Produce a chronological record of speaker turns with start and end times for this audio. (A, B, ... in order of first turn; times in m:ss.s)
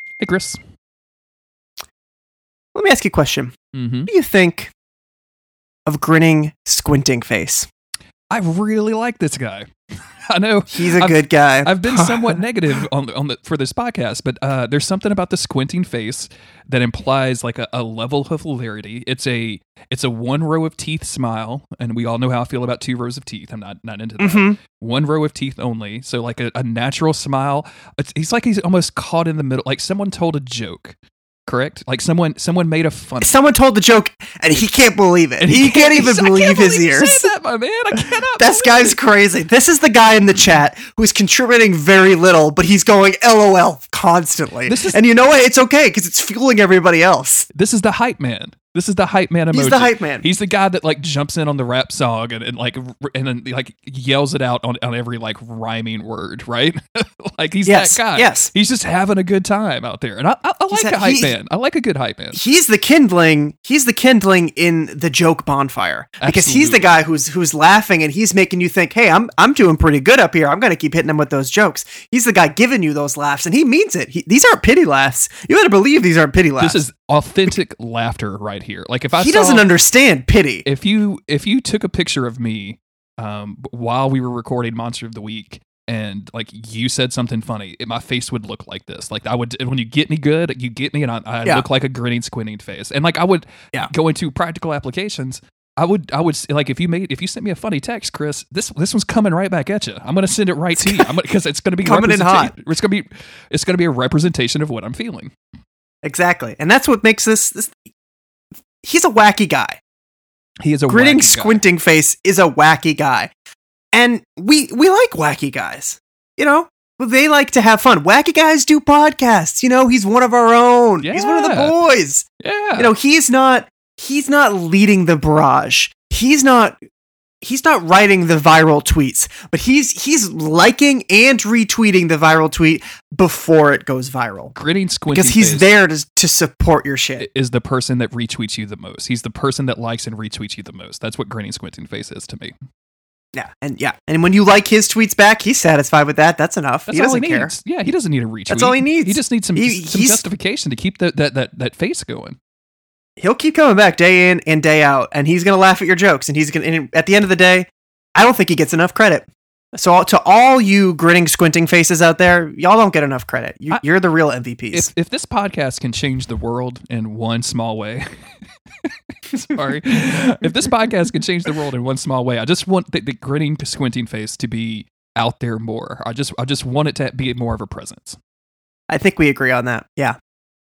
0:00.2-0:00.6 A
0:02.7-0:03.5 B
0:03.7-0:04.1 A
0:04.1-0:04.7 B
0:05.9-0:07.7 B
0:08.3-0:09.7 A
0:10.3-0:33.4 A
0:10.7-0:12.4 B
0:24.2-0:24.6 B
0:33.2-0:37.3 B
0:35.4-0:39.0 A
0:38.4-0:47.5 B
0:44.7-0:45.0 A
0:47.5-1:02.4 A
0:49.5-0:50.2 B
0:57.7-0:58.5 B
1:00.7-1:01.4 B
1:02.3-1:16.8 B
1:06.2-1:07.0 A
1:16.6-1:19.7 A
1:19.2-1:20.6 B
1:20.6-1:45.3 A
1:40.8-1:41.1 B
1:41.8-1:42.5 B
1:46.0-1:47.8 B
1:48.8-1:49.8 B
1:50.6-1:51.6 A
1:50.9-1:53.3 B
1:53.9-2:02.3 B
2:01.0-2:01.8 A
2:02.4-2:02.9 A
2:02.8-2:06.8 B
2:07.4-2:14.5 B
2:14.5-2:15.7 A
2:15.1-2:17.3 B
2:17.2-2:22.6 A
2:23.3-2:27.5 B
2:26.9-2:32.4 A
2:28.5-2:30.3 B
2:33.2-2:44.9 B
2:44.7-2:48.0 A
2:49.3-2:58.2 A
2:58.9-3:00.2 B